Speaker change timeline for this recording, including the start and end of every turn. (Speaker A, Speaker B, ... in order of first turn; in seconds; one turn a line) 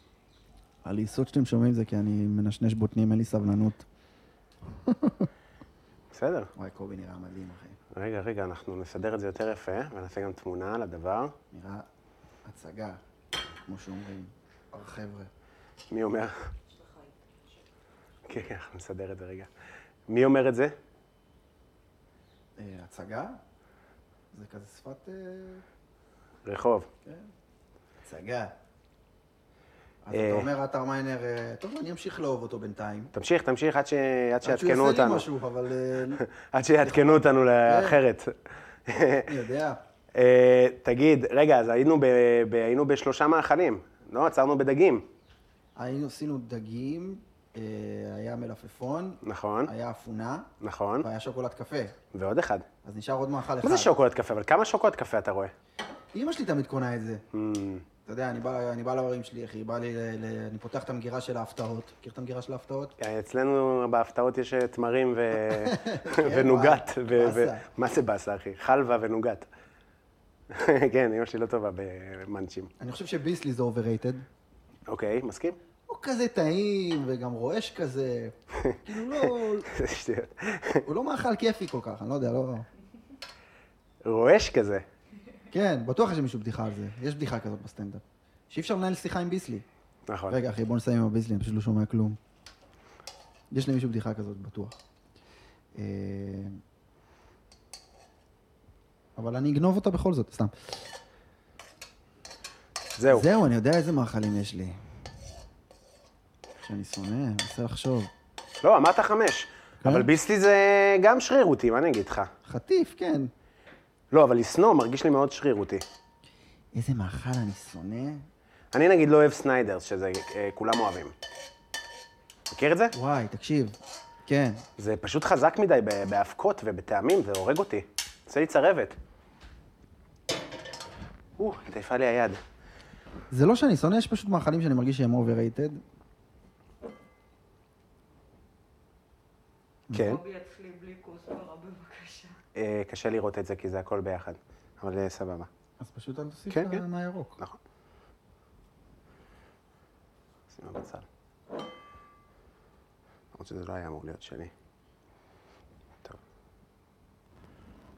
Speaker A: 0.8-3.9
Speaker A: 4.8-5.3
Speaker B: 6.1-6.5
Speaker A: 6.6-7.8
Speaker B: 7.9-11.3
Speaker A: 11.5-11.9
Speaker A: 12.4-13.0
Speaker A: 13.7-15.3
Speaker B: 15.9-16.5
Speaker C: 16.7-17.6
Speaker B: 18.3-19.5
Speaker B: 20.1-20.7
Speaker A: 22.6-23.4
Speaker A: 24.3-25.6
Speaker B: 26.5-26.9
Speaker A: 28.0-28.5
Speaker A: 30.0-33.1
Speaker B: 30.1-30.5
Speaker B: 33.1-35.3
Speaker A: 34.4-36.2
Speaker B: 36.2-38.4
Speaker A: 36.8-38.0
Speaker B: 38.9-39.3
Speaker A: 39.3-39.8
Speaker B: 40.1-45.1
Speaker A: 45.8-50.5
Speaker B: 49.2-49.7
Speaker B: 50.6-51.1
Speaker A: 51.0-52.0
Speaker B: 52.1-52.7
Speaker A: 52.8-54.0
Speaker B: 53.6-55.5
Speaker A: 56.1-57.2
Speaker B: 57.3-57.9
Speaker A: 58.0-62.9
Speaker B: 63.0-69.5
Speaker A: 65.3-67.6
Speaker B: 70.5-72.7
Speaker A: 72.8-74.2
Speaker B: 74.9-75.6
Speaker A: 75.9-79.7
Speaker B: 78.6-80.8
Speaker A: 80.9-82.7
Speaker B: 84.0-84.8
Speaker A: 85.5-89.7
Speaker B: 90.1-90.4
Speaker A: 90.3-92.2
Speaker A: 93.5-94.8
Speaker A: 95.8-96.6
Speaker A: 99.2-100.8
Speaker B: 103.0-103.3
Speaker A: 103.1-104.8
Speaker A: 106.6-108.1
Speaker B: 108.6-112.3
Speaker A: 109.8-110.1
Speaker A: 112.5-113.3
Speaker B: 114.1-115.8
Speaker A: 116.8-118.3
Speaker B: 118.7-121.1
Speaker B: 122.5-123.0
Speaker A: 122.9-124.6
Speaker B: 124.8-129.0
Speaker B: 131.4-132.4
Speaker A: 133.3-135.8
Speaker A: 139.9-140.2
Speaker B: 139.9-140.2
Speaker C: 140.0-142.4
Speaker B: 142.6-145.5
Speaker A: 145.8-147.4
Speaker B: 146.5-146.8
Speaker B: 150.5-151.1
Speaker B: 153.3-154.5